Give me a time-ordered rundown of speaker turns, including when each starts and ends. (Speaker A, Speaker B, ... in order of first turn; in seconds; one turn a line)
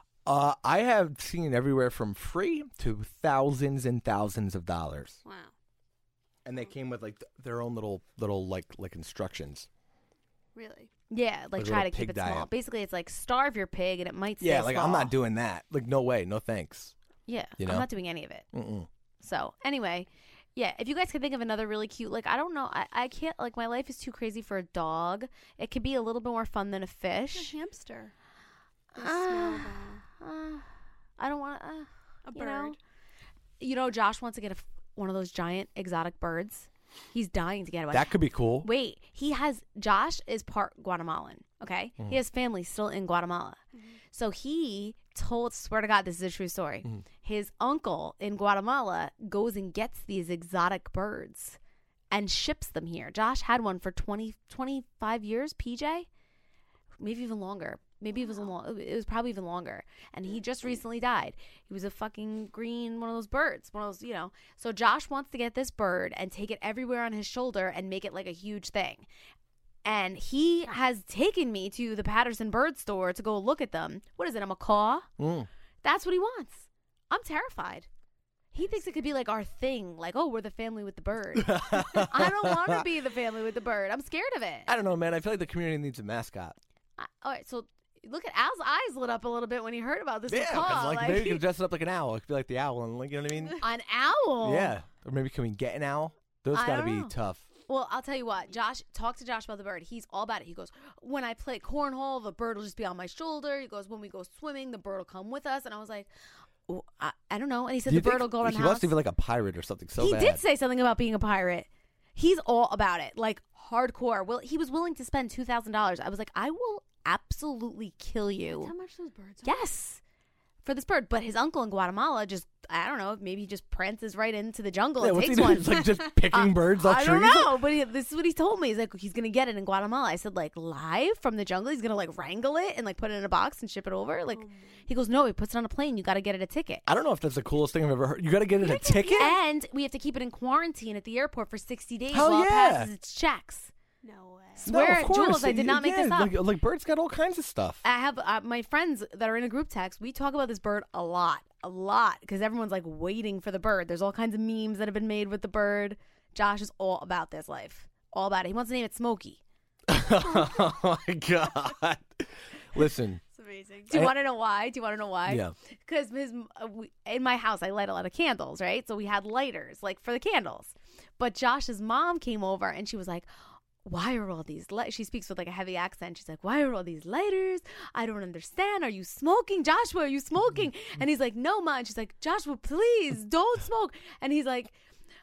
Speaker A: 0.2-5.2
Speaker B: 5.2-5.5
Speaker A: 6.4-9.7
Speaker B: 10.6-10.9
Speaker C: 11.1-15.1
Speaker A: 11.6-12.5
Speaker A: 14.4-16.9
Speaker C: 17.3-18.4
Speaker A: 17.6-17.9
Speaker A: 18.5-18.9
Speaker C: 19.2-27.5
Speaker B: 27.3-28.1
Speaker C: 28.9-30.6
Speaker B: 29.0-30.0
Speaker C: 31.2-32.8
Speaker B: 32.2-32.8
Speaker C: 33.6-43.6
Speaker A: 37.9-38.7
Speaker C: 44.1-51.6
Speaker C: 52.1-56.1
Speaker C: 57.0-69.1
Speaker C: 69.8-75.1
Speaker A: 75.2-75.5
Speaker C: 75.8-77.9
Speaker C: 78.5-84.7
Speaker A: 81.4-82.8
Speaker A: 84.7-86.6
Speaker C: 87.0-91.4
Speaker A: 90.3-93.6
Speaker C: 93.6-94.7
Speaker A: 94.4-97.5
Speaker C: 96.5-97.1
Speaker C: 97.7-106.1
Speaker C: 106.7-108.9
Speaker A: 107.9-110.4
Speaker C: 110.0-118.7
Speaker B: 118.5-119.7
Speaker C: 119.4-120.0
Speaker C: 120.6-136.9
Speaker A: 125.0-127.5
Speaker B: 134.3-134.9
Speaker A: 136.9-139.3
Speaker B: 138.6-139.3
Speaker C: 139.1-143.7
Speaker A: 142.1-142.9
Speaker B: 144.0-144.8
Speaker C: 144.6-146.3
Speaker A: 144.6-147.8
Speaker C: 147.8-159.4
Speaker A: 159.9-163.2
Speaker B: 163.3-163.9
Speaker C: 163.9-173.3
Speaker A: 165.3-165.5
Speaker C: 173.8-184.7